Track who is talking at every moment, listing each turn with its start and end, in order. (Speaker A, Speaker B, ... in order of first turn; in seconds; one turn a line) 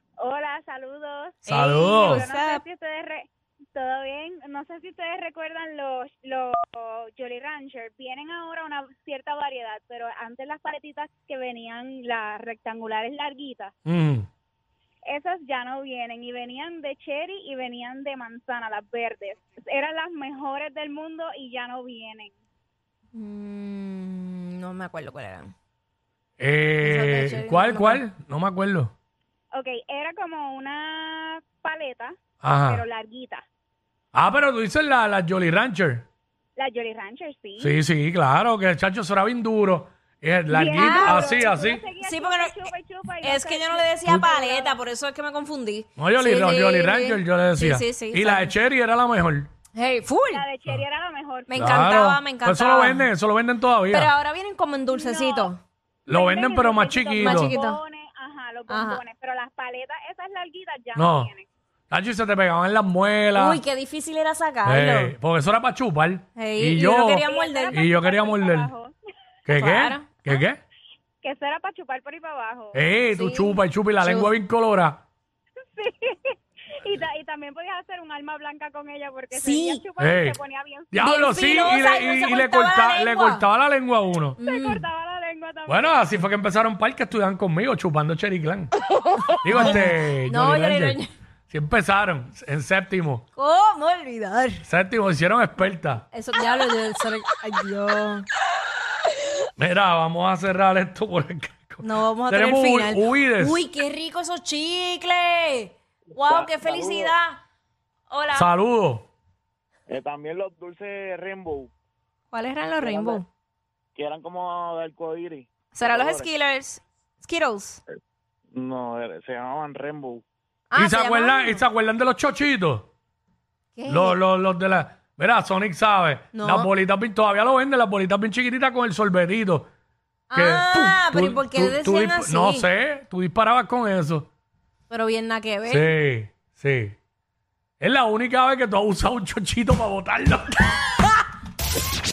Speaker A: 0.2-1.4
Speaker B: 1.4-2.6
Speaker C: 1.5-2.3
Speaker A: 2.1-13.7
Speaker C: 13.8-14.3
Speaker A: 15.1-22.3
Speaker B: 23.1-25.5
Speaker C: 26.4-28.9
Speaker B: 26.8-28.0
Speaker A: 29.5-32.1
Speaker C: 32.4-32.8
Speaker A: 32.7-33.4
Speaker C: 34.1-36.0
Speaker A: 36.6-37.7
Speaker C: 37.6-41.8
Speaker A: 40.5-44.8
Speaker B: 40.7-41.4
Speaker B: 42.0-48.5
Speaker C: 46.0-49.5
Speaker B: 49.7-50.4
Speaker A: 50.3-51.6
Speaker B: 51.5-53.1
Speaker C: 51.5-54.1
Speaker B: 53.9-55.6
Speaker A: 54.9-55.5
Speaker C: 56.1-57.5
Speaker A: 56.1-61.5
Speaker B: 57.2-57.8
Speaker B: 58.7-59.0
Speaker C: 60.9-61.3
Speaker C: 61.9-63.6
Speaker B: 63.3-65.1
Speaker C: 64.6-68.7
Speaker B: 66.4-67.8
Speaker A: 67.2-68.9
Speaker C: 69.5-70.6
Speaker B: 69.5-70.1
Speaker A: 71.2-72.8
Speaker C: 72.7-75.0
Speaker B: 73.1-74.3
Speaker A: 75.8-81.0
Speaker B: 79.3-79.8
Speaker C: 80.0-80.4
Speaker C: 80.9-84.4
Speaker B: 81.0-83.4
Speaker B: 84.4-84.8
Speaker A: 84.4-86.0
Speaker C: 85.7-88.7
Speaker B: 88.8-91.1
Speaker C: 89.4-91.0
Speaker C: 91.5-93.2
Speaker B: 93.3-94.6
Speaker C: 94.7-96.0
Speaker B: 96.1-98.2
Speaker C: 99.6-103.6
Speaker B: 101.8-107.4
Speaker D: 106.2-107.1
Speaker B: 108.1-108.5
Speaker C: 108.3-109.1
Speaker D: 109.9-111.7
Speaker B: 112.3-113.2
Speaker D: 112.8-113.2
Speaker D: 113.9-116.3
Speaker B: 115.7-117.8
Speaker D: 118.5-120.2
Speaker B: 120.7-121.6
Speaker C: 120.8-122.9
Speaker B: 123.8-124.2
Speaker C: 123.9-129.7
Speaker B: 126.3-126.7
Speaker B: 130.3-132.6
Speaker C: 130.3-134.3
Speaker B: 134.9-135.9
Speaker C: 135.7-136.9
Speaker C: 137.8-140.8